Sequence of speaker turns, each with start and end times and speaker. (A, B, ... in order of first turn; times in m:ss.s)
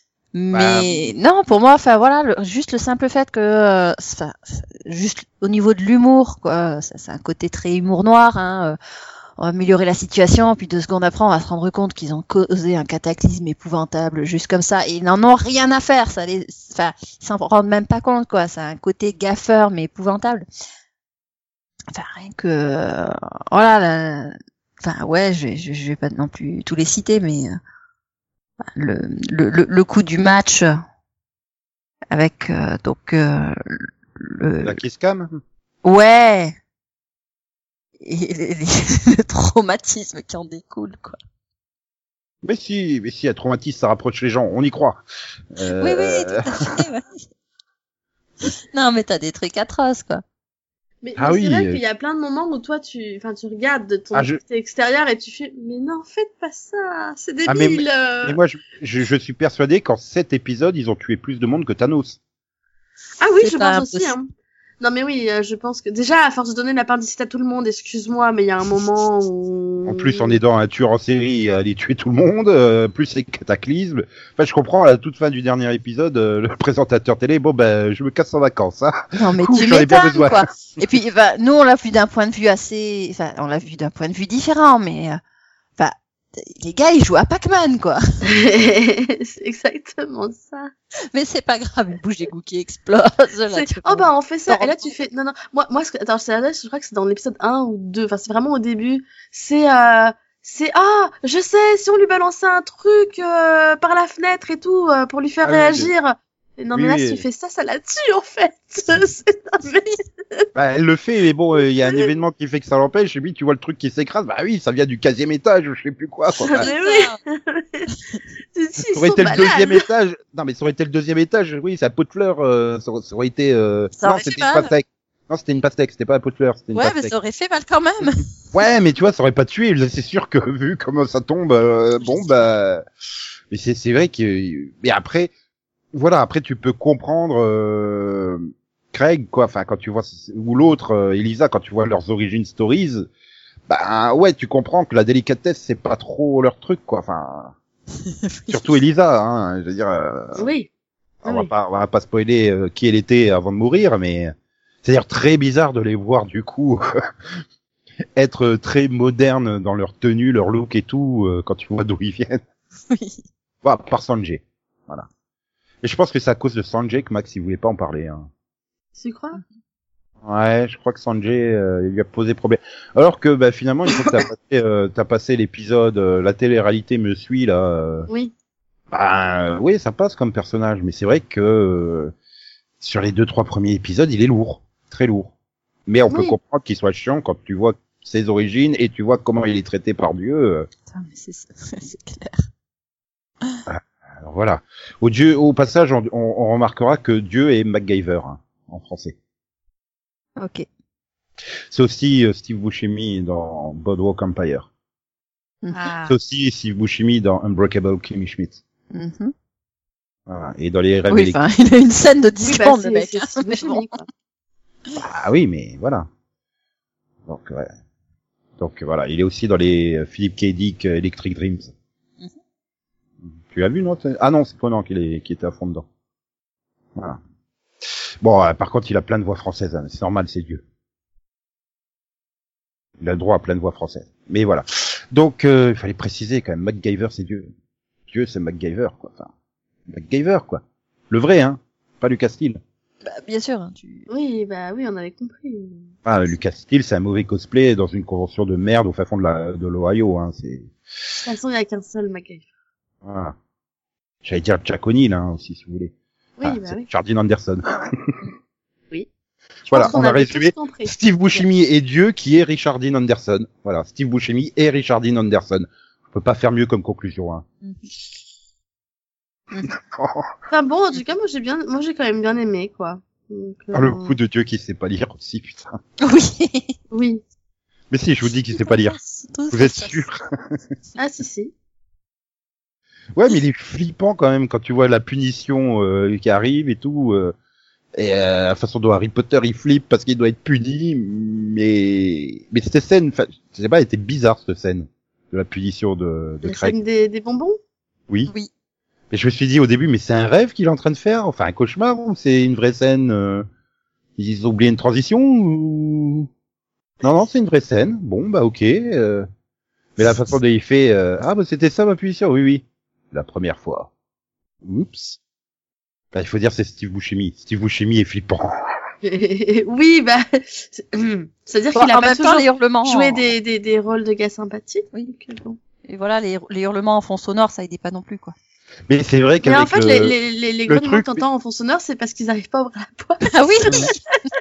0:00.3-0:08.8 A
0:00.5-0:01.0 B
0:09.4-0:20.4 A
0:21.9-0:27.6 A
0:28.7-0:30.7 A
0:32.1-0:34.8 A
0:34.6-0:35.3 B
0:35.8-0:36.6 A
0:38.0-0:41.2 A
0:42.4-0:45.0 B
0:45.5-0:46.8 B
0:45.8-0:47.0 A
0:48.4-0:50.2 A
0:51.0-0:58.4 C
0:51.2-0:51.8 B
0:54.1-0:54.4 B
0:57.5-1:02.2 B
1:03.2-1:04.3 C
1:03.4-1:04.1 A
1:04.8-1:10.4 C
1:09.9-1:20.4 B
1:19.1-1:25.2 A
1:25.8-1:28.0 A
1:28.3-1:30.7 C
1:31.1-1:35.0 A
1:33.5-1:50.4 C
1:45.4-1:45.9 B
1:46.7-1:47.2 B
1:50.5-1:56.7 B
1:56.4-1:57.9 C
1:56.6-1:57.2 A
1:58.5-1:59.8 C
1:58.9-2:07.1 B
2:04.0-2:04.7 A
2:06.7-2:08.2 A
2:08.5-2:12.8 B
2:12.2-2:12.4 A
2:13.5-2:15.3 B
2:15.9-2:23.1 B
2:23.7-2:27.5 B
2:28.3-2:28.7 A
2:28.5-2:30.5 B
2:30.4-2:30.7 C
2:31.2-2:34.3 B
2:31.2-2:31.5 C
2:34.8-2:36.8 B
2:38.2-2:42.4 B
2:42.9-2:43.2 A
2:43.6-2:45.1 B
2:45.8-2:48.3 B
2:49.0-2:49.4 C
2:50.2-2:58.1 B
2:58.9-3:02.1 B
3:02.8-3:05.3 B
3:05.9-3:10.7 B
3:06.1-3:06.4 C
3:10.9-3:12.4 A
3:13.6-3:19.2 B
3:20.4-3:20.6 A
3:21.7-3:24.7 B
3:25.6-3:26.1 A
3:26.1-3:28.6 B
3:28.9-3:29.3 A
3:30.3-3:31.4 B
3:31.1-3:33.9 A
3:32.4-3:34.0 C
3:34.9-3:36.1 B
3:37.3-3:37.7 B
3:38.6-3:41.7 B
3:43.3-3:45.9 B
3:48.2-3:50.6 B
3:53.0-3:57.5 B
3:58.1-3:59.3 B
3:59.9-4:02.6 B
4:03.0-4:04.1 A
4:04.1-4:05.9 C
4:06.0-4:10.7 B
4:11.2-4:12.4 C
4:13.0-4:13.3 B
4:14.2-4:15.9 B
4:16.4-4:16.9 C
4:16.4-4:18.1 B
4:19.7-4:27.4 B
4:19.7-4:20.9 C
4:29.7-4:30.3 B
4:30.5-4:34.2 C
4:33.7-4:35.7 B
4:36.0-4:36.7 A
4:36.9-4:37.2 C
4:37.9-4:39.0 B
4:38.5-4:40.1 A
4:39.5-4:40.2 B
4:41.0-4:41.5 C
4:43.2-4:47.3 B
4:48.0-4:56.7 B
4:56.4-4:57.6 C
4:59.1-5:03.5 B
5:04.2-5:06.3 B
5:07.0-5:09.3 B
5:10.0-5:13.9 B
5:14.6-5:15.2 B
5:16.1-5:18.5 B
5:19.0-5:25.6 C
5:21.7-5:23.2 A
5:25.9-5:28.3 A
5:28.9-5:30.1 B
5:29.4-5:34.0 C
5:30.7-5:31.2 B
5:33.3-5:33.9 A